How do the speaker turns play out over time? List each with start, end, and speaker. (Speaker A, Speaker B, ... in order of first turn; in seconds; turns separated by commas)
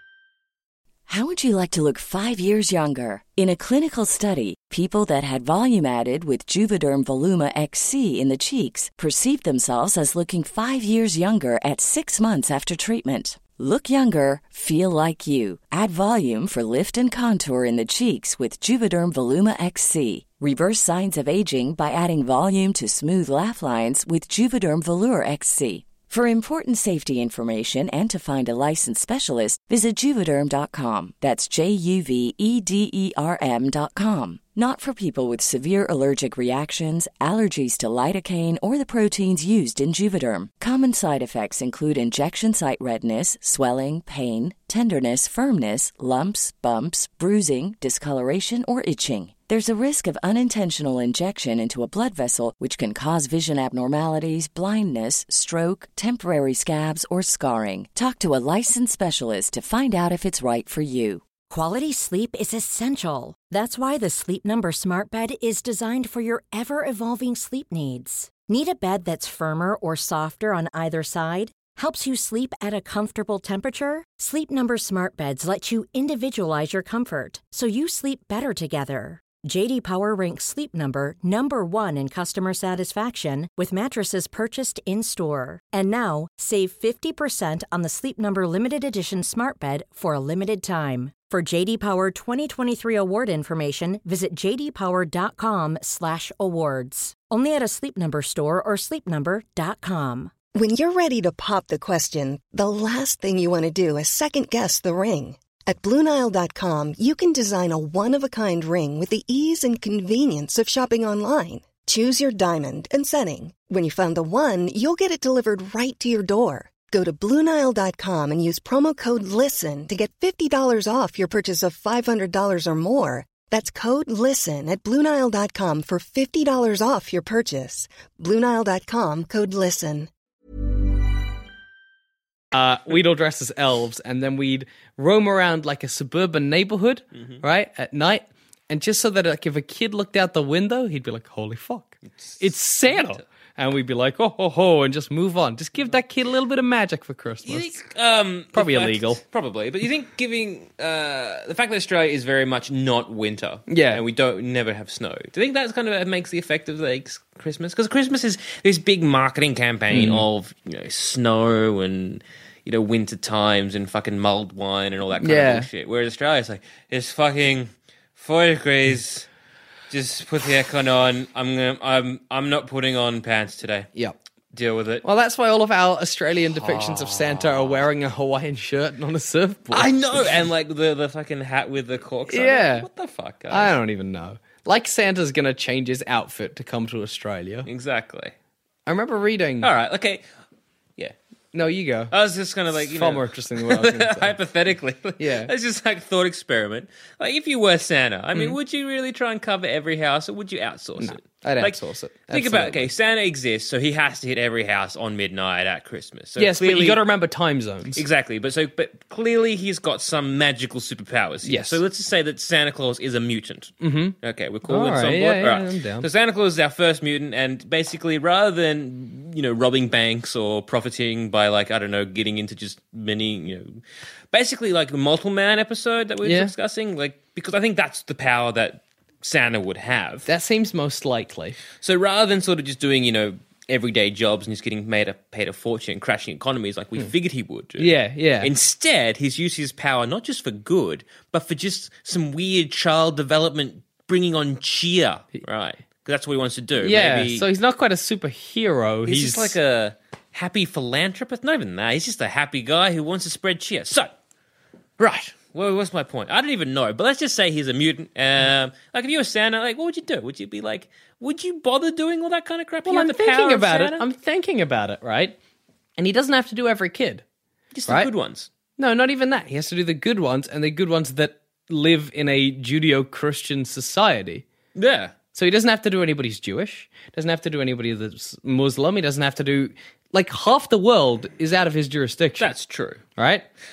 Speaker A: 1.1-61.2, Speaker B: 61.5-100.3, Speaker C: 100.5-130.1, Speaker D: 132.5-147.7, Speaker E: 142.3-143.2, Speaker E: 147.4-169.3, Speaker D: 148.5-149.2, Speaker D: 153.7-154.0, Speaker D: 159.9-160.3, Speaker D: 165.2-165.7, Speaker E: 169.9-173.9, Speaker E: 174.5-175.1, Speaker D: 175.0-180.3, Speaker E: 176.6-177.8, Speaker E: 179.7-183.8, Speaker D: 182.3-182.9, Speaker D: 183.5-187.7, Speaker E: 187.7-188.3, Speaker D: 188.9-189.7, Speaker E: 189.6-190.2, Speaker D: 191.5-192.1, Speaker E: 192.1-207.1, Speaker D: 192.7-194.4, Speaker D: 195.2-195.5, Speaker D: 201.0-202.9, Speaker D: 206.4-208.0, Speaker E: 208.0-223.8, Speaker D: 211.4-211.8, Speaker D: 213.8-216.1, Speaker E: 224.3-230.3, Speaker D: 226.2-226.5, Speaker D: 230.3-231.6, Speaker E: 231.8-247.5, Speaker D: 237.8-238.5, Speaker D: 246.8-249.6, Speaker E: 249.1-254.1, Speaker E: 255.0-264.1, Speaker D: 262.9-265.4, Speaker D: 266.0-267.2, Speaker E: 267.7-268.5, Speaker D: 268.8-274.5, Speaker E: 274.8-275.1, Speaker D: 275.3-282.5, Speaker E: 282.4-283.0, Speaker D: 283.2-283.5